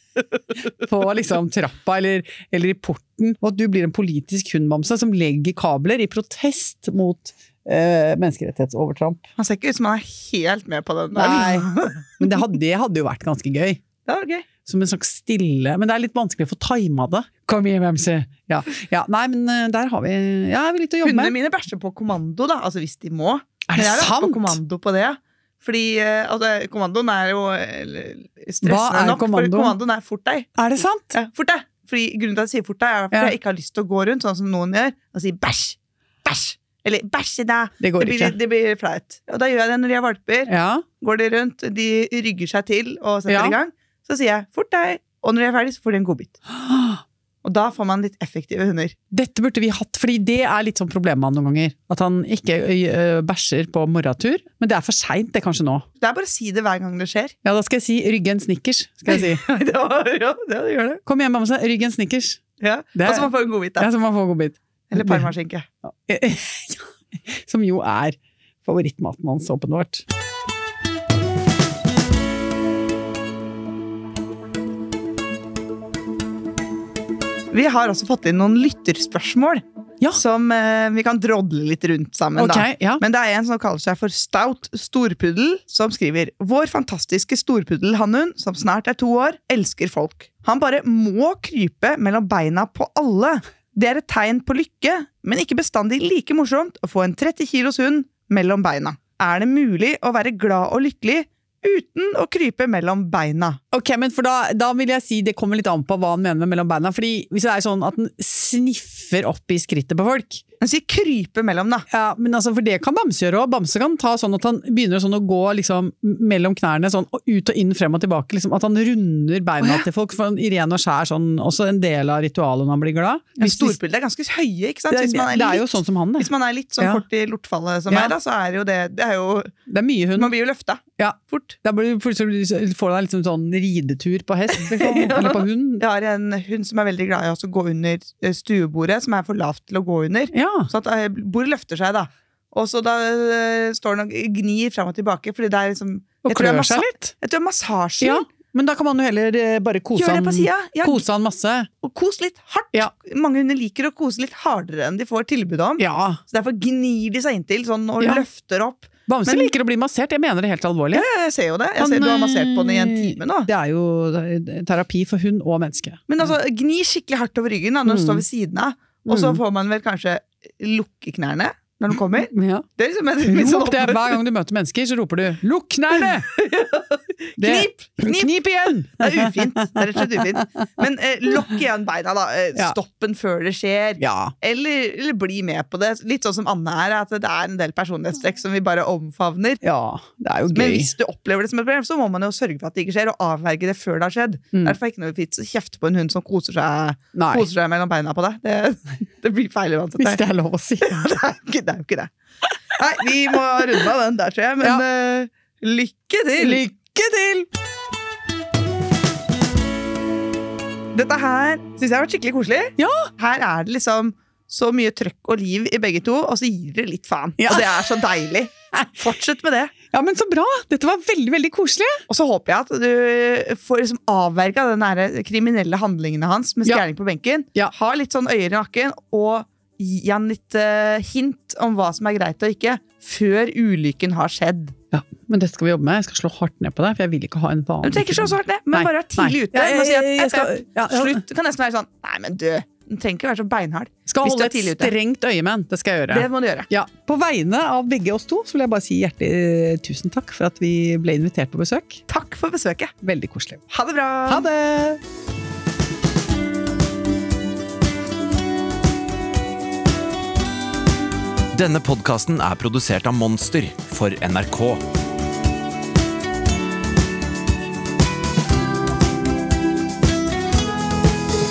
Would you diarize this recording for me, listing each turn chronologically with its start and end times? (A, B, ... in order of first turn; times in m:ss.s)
0:00.8-0:09.3 A
0:09.4-0:12.4 B
0:11.2-0:13.8 A
0:14.1-0:14.5 B
0:14.6-0:21.4 A
0:21.0-0:30.5 B
0:23.7-0:24.6 A
0:28.6-0:29.8 A
0:30.6-0:31.1 A
0:31.1-0:46.4 B
0:37.8-0:38.4 A
0:40.5-0:40.8 A
0:43.3-0:43.6 A
0:46.5-0:47.0 A
0:47.4-0:49.0 B
0:49.1-0:55.9 A
0:56.0-0:57.3 B
0:57.4-0:59.4 A
0:59.1-1:01.0 B
1:01.0-1:02.4 A
1:02.6-1:03.9 B
1:03.0-1:05.3 A
1:04.9-1:05.7 B
1:05.8-1:10.0 A
1:17.5-1:43.6 B
1:22.4-1:23.0 A
1:43.7-1:50.4 A
1:50.6-1:51.9 B
1:51.9-2:03.8 A
2:03.4-2:09.5 B
2:04.9-2:07.0 A
2:07.9-2:08.1 A
2:09.7-2:10.3 A
2:10.2-2:11.6 B
2:11.0-2:15.8 A
2:14.5-2:28.3 B
2:20.3-2:20.7 A
2:26.2-2:27.1 A
2:28.0-2:31.7 A
2:30.0-2:31.0 B
2:31.8-2:39.5 B
2:35.8-2:36.2 A
2:39.1-2:41.1 A
2:40.9-2:43.5 B
2:41.8-2:46.1 A
2:46.1-2:54.2 B
2:47.9-2:48.2 A
2:49.0-2:49.4 A
2:52.2-2:52.7 A
2:53.2-2:56.3 A
2:56.3-2:58.4 B
2:57.4-3:00.6 A
2:59.0-3:09.6 B
3:04.0-3:04.3 A
3:09.6-3:10.9 A
3:10.5-3:20.2 B
3:17.1-3:17.5 A
3:20.0-3:20.9 A
3:20.8-3:22.1 B
3:22.7-3:26.6 B
3:26.4-3:27.5 A
3:30.9-3:39.7 B
3:32.8-3:33.1 A
3:37.4-3:37.9 A
3:39.9-3:42.0 A
3:42.1-3:54.8 B
3:54.9-4:01.2 A
3:57.8-4:04.9 B
4:04.1-4:12.0 A
4:06.1-4:06.7 B
4:12.1-4:12.9 B
4:13.0-4:13.6 A
4:13.7-4:14.5 B
4:14.3-4:15.0 A
4:21.5-4:24.8 C